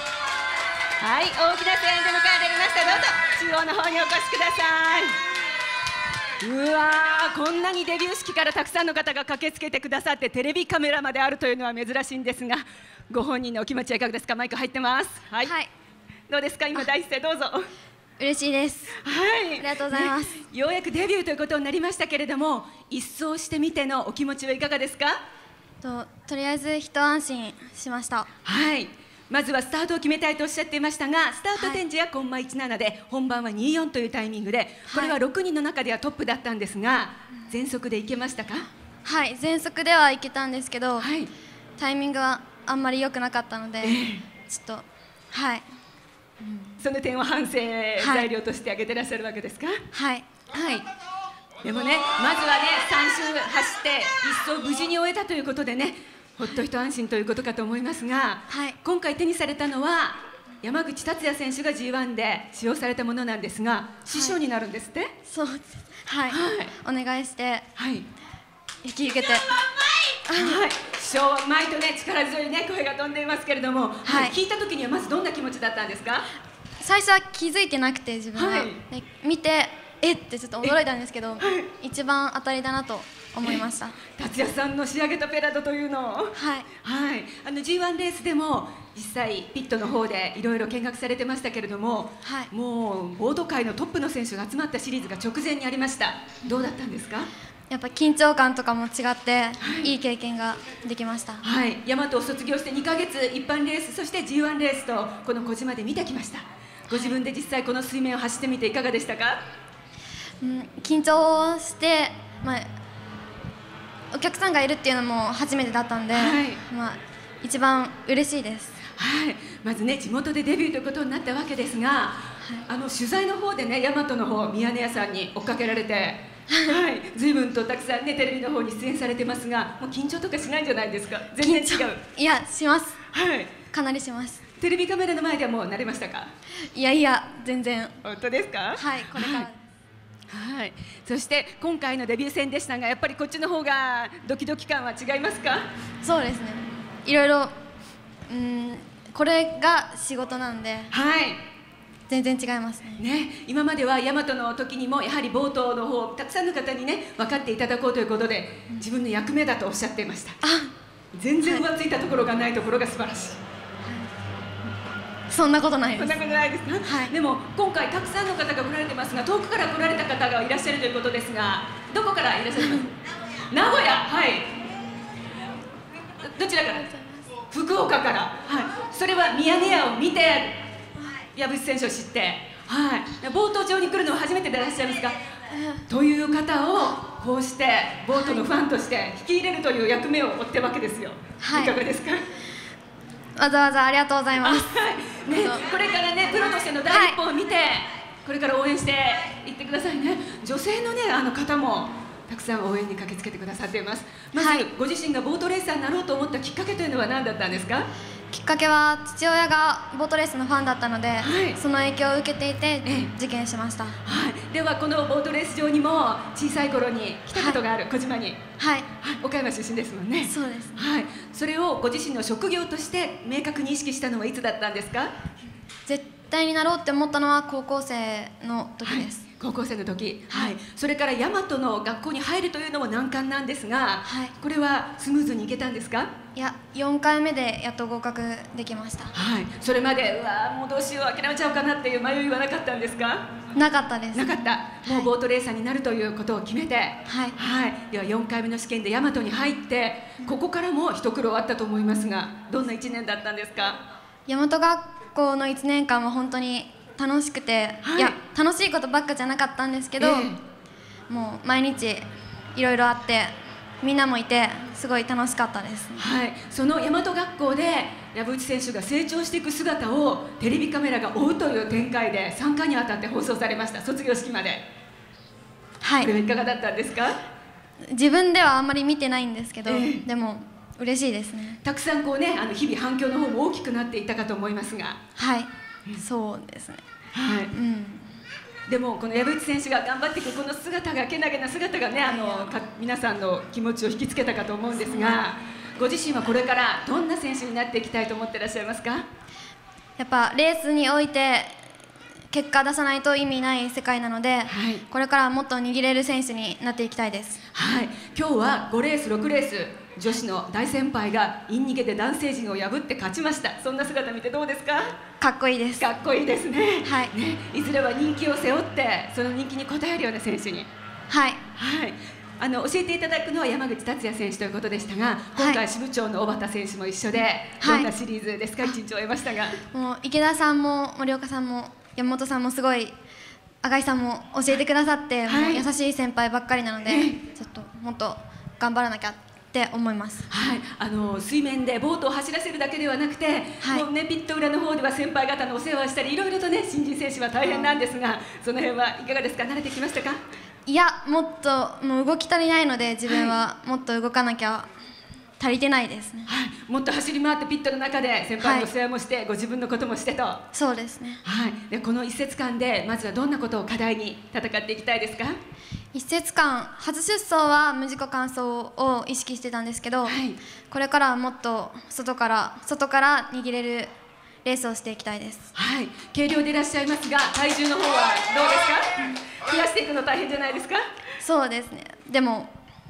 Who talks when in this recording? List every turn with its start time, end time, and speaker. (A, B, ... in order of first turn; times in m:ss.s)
0:01.0-0:05.2 A
0:06.4-0:15.5 A
0:15.4-0:15.7 B
0:16.3-0:17.6 A
0:18.2-0:19.0 B
0:19.0-0:25.2 A
0:19.6-0:20.4 B
0:25.8-0:28.3 B
0:28.4-0:38.7 A
0:31.6-0:31.8 B
0:34.9-0:35.2 B
0:39.0-0:41.1 B
0:41.0-0:41.3 A
0:41.8-0:45.6 B
0:43.8-0:44.2 A
0:46.4-0:46.8 B
0:46.8-0:49.8 A
0:48.0-0:48.3 B
0:49.9-0:50.3 B
0:50.5-0:50.8 A
0:51.6-1:05.1 A
0:58.5-0:58.8 B
1:05.3-1:07.7 B
1:06.3-1:06.7 A
1:07.8-1:08.1 A
1:08.8-1:09.6 B
1:10.2-1:10.6 B
1:10.3-1:16.3 A
1:14.0-1:14.4 B
1:16.8-1:24.0 B
1:18.4-1:18.8 A
1:21.4-1:21.7 A
1:24.2-1:37.3 A
1:26.3-1:26.7 B
1:32.2-1:32.5 B
1:37.7-1:41.4 B
1:39.6-1:39.9 A
1:41.4-1:49.4 A
1:46.9-1:47.2 B
1:50.4-1:52.7 B
1:54.1-1:58.8 B
1:56.1-1:56.6 A
1:59.0-2:12.0 A
2:06.5-2:06.8 B
2:11.4-2:13.0 B
2:13.1-2:13.5 A
2:13.7-2:14.4 B
2:14.6-2:16.3 A
2:16.7-2:18.0 B
2:18.0-2:19.5 A
2:18.7-2:19.7 B
2:20.3-2:25.6 A
2:26.0-2:27.5 B
2:28.3-2:30.9 B
2:30.9-2:31.4 A
2:32.1-2:33.0 B
2:33.0-2:40.4 A
2:40.4-2:40.7 B
2:41.1-2:43.4 A
2:43.8-2:44.1 B
2:45.3-2:46.2 B
2:46.0-2:52.9 A
2:46.8-2:47.1 B
2:52.6-2:52.9 B
2:53.5-2:54.5 A
2:56.2-2:56.9 A
2:56.8-2:57.3 B
2:57.4-3:00.6 A
3:01.3-3:05.1 A
3:05.5-3:05.8 B
3:05.9-3:12.2 A
3:08.1-3:08.4 B
3:11.4-3:11.8 B
3:13.4-3:15.7 B
3:14.4-3:27.9 A
3:16.9-3:17.2 B
3:24.4-3:24.6 B
3:28.3-3:34.0 B
3:31.2-3:31.6 A
3:32.8-3:33.1 A
3:34.0-3:38.4 A
3:38.6-3:38.9 B
3:39.0-3:45.1 A
3:40.2-3:40.8 B
3:45.9-3:49.2 B
3:48.8-3:56.1 A
3:50.3-3:50.5 B
3:54.0-3:54.3 B
3:56.4-3:59.1 B
3:59.1-4:03.3 A
4:03.5-4:05.1 B
4:04.1-4:13.8 A
4:07.1-4:07.4 B
4:14.3-4:20.3 B
4:17.8-4:18.2 A
4:20.0-4:20.4 A
4:21.1-4:26.0 B
4:26.0-4:34.6 A
4:35.8-4:36.1 B
4:36.0-4:37.2 A
4:37.9-4:41.6 B
4:39.6-4:40.0 A
4:41.6-4:45.0 A
4:45.2-4:46.8 B
4:47.1-4:47.5 A
4:47.5-4:48.1 B
4:48.7-4:59.0 A
4:54.8-4:55.2 B
5:00.0-5:01.6 B
5:02.3-5:07.4 B
5:04.5-5:04.8 A
5:07.5-5:15.0 A
5:15.2-5:15.8 B
5:15.8-5:20.7 A
5:16.8-5:17.1 B
5:21.1-5:21.4 B
5:21.6-5:29.6 A
5:27.6-5:27.9 B
5:29.7-5:32.9 B
5:33.6-5:40.3 B
5:35.3-5:35.6 A
5:36.8-5:37.2 A
5:40.3-5:50.2 A
5:43.6-5:43.9 B
5:50.7-5:54.7 B
5:53.1-5:53.3 A
5:55.4-5:56.3 B
5:56.2-6:00.4 A
5:58.4-5:58.7 B
6:00.5-6:01.2 B
6:01.2-6:05.4 A
6:05.9-6:10.2 B
6:10.0-6:10.4 A
6:10.7-6:13.9 B
6:14.4-6:15.5 B
6:15.5-6:20.8 A
6:21.2-6:22.5 B